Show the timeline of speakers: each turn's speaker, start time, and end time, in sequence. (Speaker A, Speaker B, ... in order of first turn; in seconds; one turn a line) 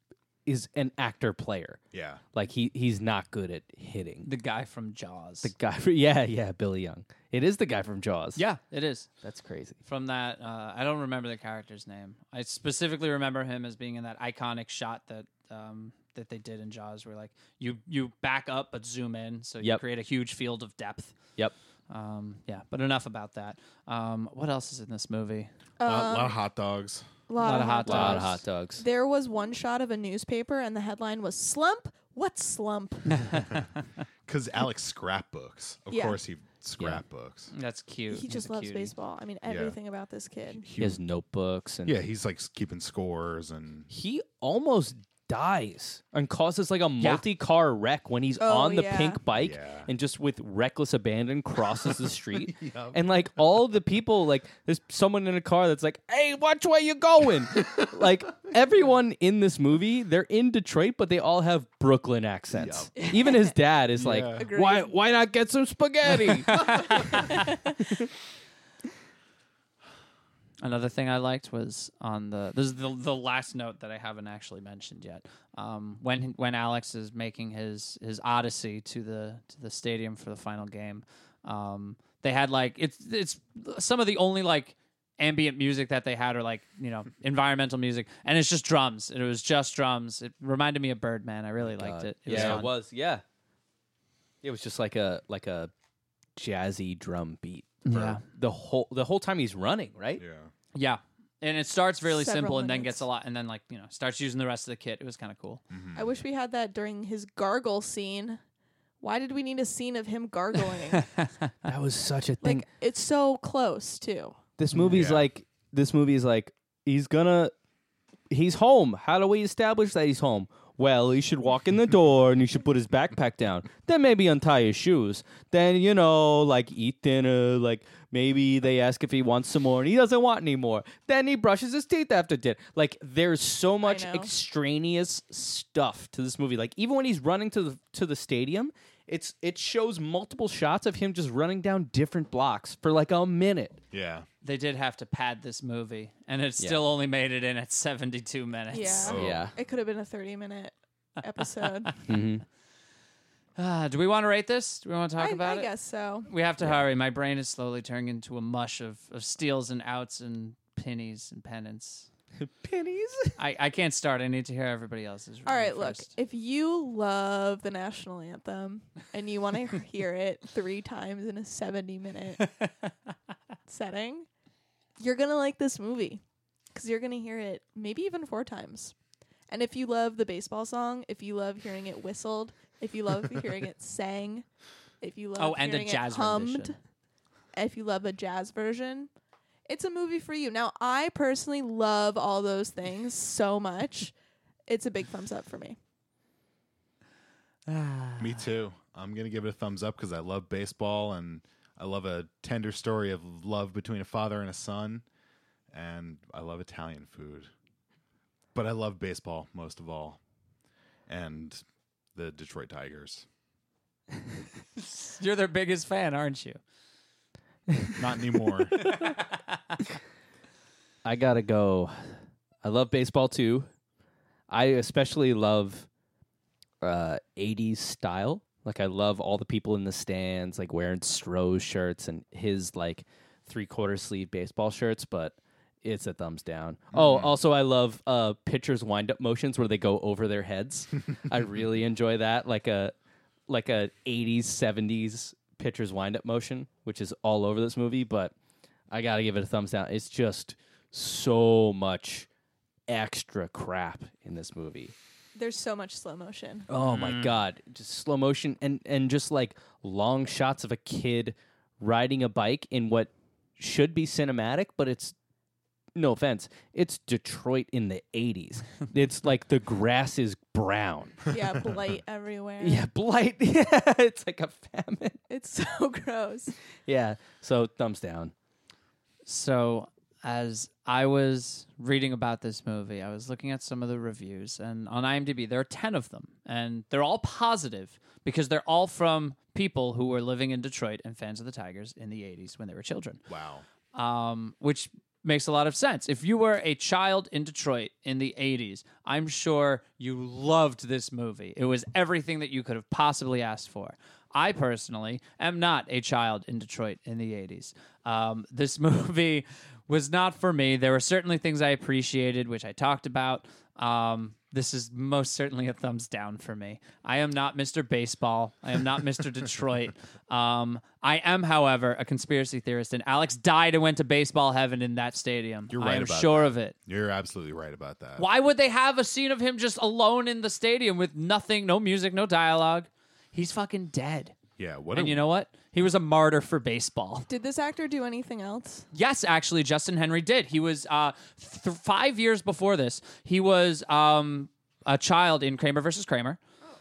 Speaker A: 0.5-1.8
Speaker B: 1.9-2.2
Speaker A: 2.3-4.3
Speaker C: 4.2-5.5
Speaker A: 5.4-8.4
Speaker C: 8.4-9.1
Speaker A: 9.2-9.8
Speaker C: 9.8-21.2
Speaker C: 21.9-25.5
Speaker D: 25.8-26.4
Speaker B: 25.9-27.1
Speaker D: 27.3-33.6
Speaker C: 27.4-28.4
Speaker A: 27.8-28.9
Speaker C: 33.2-33.6
Speaker B: 34.3-37.5
Speaker D: 35.9-36.2
Speaker C: 37.5-38.9
Speaker D: 38.1-40.7
Speaker B: 39.5-39.8
Speaker B: 40.6-41.0
Speaker A: 40.8-42.0
Speaker B: 41.9-43.9
Speaker A: 43.9-66.9
Speaker D: 48.4-49.2
Speaker B: 49.4-49.9
Speaker B: 52.5-53.0
Speaker B: 62.5-63.1
Speaker D: 63.0-63.5
Speaker B: 64.0-64.5
Speaker D: 64.3-64.9
Speaker C: 66.4-67.4
Speaker D: 67.3-67.8
Speaker A: 67.8-68.1
Speaker C: 70.6-92.7
Speaker A: 91.7-93.2
Speaker B: 92.3-92.6
Speaker A: 94.4-95.7
Speaker A: 96.4-100.2
Speaker C: 97.8-98.2
Speaker B: 100.2-100.5
Speaker C: 100.7-105.6
Speaker D: 102.1-103.1
Speaker B: 105.7-106.0
Speaker D: 106.0-108.4
Speaker D: 109.0-111.1
Speaker C: 110.9-111.5
Speaker A: 111.6-112.7
Speaker D: 112.4-114.4
Speaker A: 114.6-117.5
Speaker C: 114.7-115.0
Speaker B: 114.9-115.3
Speaker A: 118.3-143.8
Speaker D: 133.8-134.3
Speaker B: 143.9-144.3
Speaker C: 144.4-149.1
Speaker D: 148.7-152.0
Speaker B: 149.0-149.4
Speaker A: 149.1-149.6
Speaker A: 152.1-152.4
Speaker C: 153.6-155.7
Speaker D: 155.2-156.3
Speaker C: 156.3-162.1
Speaker A: 162.4-163.4
Speaker C: 163.4-166.1
Speaker D: 165.4-172.5
Speaker D: 173.7-174.3
Speaker D: 175.0-176.2
Speaker D: 176.7-178.9
Speaker D: 179.5-184.4
Speaker D: 185.0-186.8
Speaker C: 185.4-186.7
Speaker D: 187.5-189.1
Speaker D: 189.7-194.1
Speaker D: 194.7-195.8
Speaker C: 197.7-198.4
Speaker B: 198.2-205.1
Speaker B: 205.7-207.5
Speaker B: 208.6-210.2
Speaker B: 211.1-211.6
Speaker B: 212.1-213.2
Speaker C: 214.8-216.6
Speaker B: 218.0-218.9
Speaker C: 218.8-219.8
Speaker A: 221.0-222.1
Speaker A: 222.6-223.7
Speaker A: 224.5-225.9
Speaker A: 226.8-242.9
Speaker B: 236.9-237.3
Speaker A: 243.5-248.3
Speaker A: 248.9-252.3
Speaker A: 252.9-254.9
Speaker D: 255.3-256.7
Speaker A: 256.7-265.1
Speaker C: 256.8-257.4
Speaker A: 265.9-271.3
Speaker D: 271.3-272.9
Speaker A: 272.6-275.2
Speaker D: 275.3-276.5
Speaker A: 276.9-278.3
Speaker C: 279.3-293.2
Speaker B: 293.3-293.6
Speaker C: 293.9-326.7
Speaker B: 325.7-328.3
Speaker C: 328.2-334.4
Speaker B: 334.6-335.2
Speaker C: 334.9-337.3
Speaker D: 337.3-338.9
Speaker C: 338.9-346.4